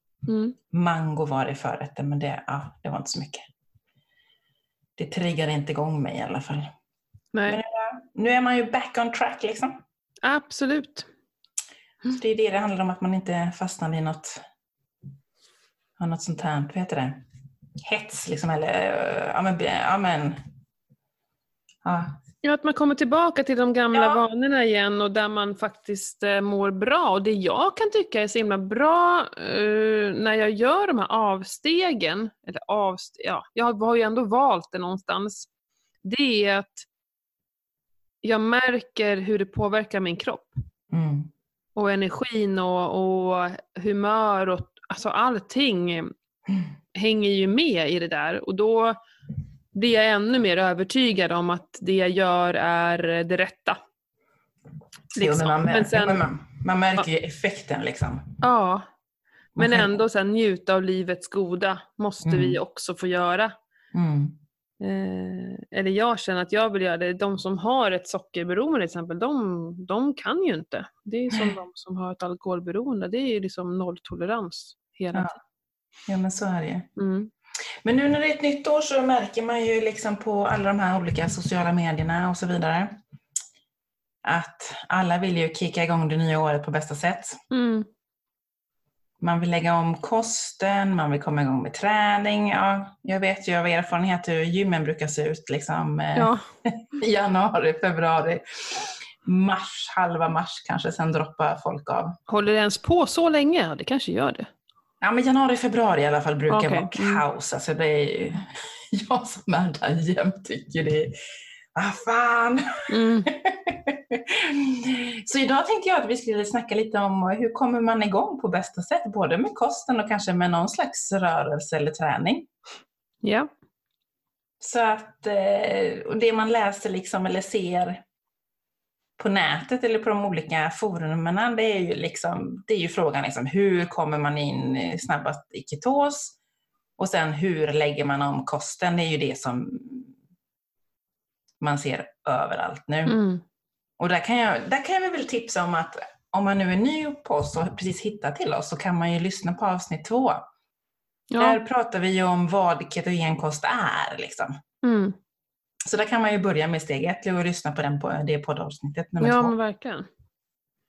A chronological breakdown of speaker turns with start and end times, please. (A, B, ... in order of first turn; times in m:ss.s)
0:00.3-0:00.5 A
0:00.7-0:03.4 B
0:05.0-0:06.7 B
0:07.3-0:07.6 A
0:07.5-0:09.8 B
0:10.2-0:11.1 A
0:12.1-0:14.4 B
0:16.0-0:17.2 B
0:17.8-0:20.4 B
0:21.8-0:22.1 B
0:22.4-0:35.5 A
0:23.9-0:24.2 B
0:36.0-0:36.9 A
0:38.2-0:40.6 A
0:40.9-0:41.3 B
0:41.8-0:46.1 A
0:46.9-0:49.0 A
0:49.7-0:53.8 A
0:55.2-0:56.2 A
0:55.2-0:58.4 B
0:58.4-0:58.8 A
0:59.6-0:59.9 B
0:59.6-1:03.5 A
1:02.2-1:02.6 B
1:03.9-1:04.4 B
1:04.8-1:15.4 A
1:16.1-1:16.9 B
1:17.0-1:17.3 A
1:17.8-1:22.9 B
1:24.2-1:27.4 B
1:27.5-1:27.9 A
1:29.2-1:42.2 B
1:36.2-1:36.4 A
1:42.3-1:44.5 A
1:45.0-1:51.1 B
1:46.5-1:47.2 A
1:51.7-2:02.5 B
1:52.9-1:53.3 A
2:03.2-2:03.5 A
2:04.6-2:08.0 B
2:09.2-2:16.4 B
2:17.0-2:20.1 B
2:21.6-2:23.2 B
2:23.0-2:23.4 A
2:24.0-2:30.4 B
2:31.3-2:31.6 A
2:31.4-2:34.5 B
2:34.8-2:35.2 A
2:35.9-2:39.5 B
2:39.2-2:40.0 A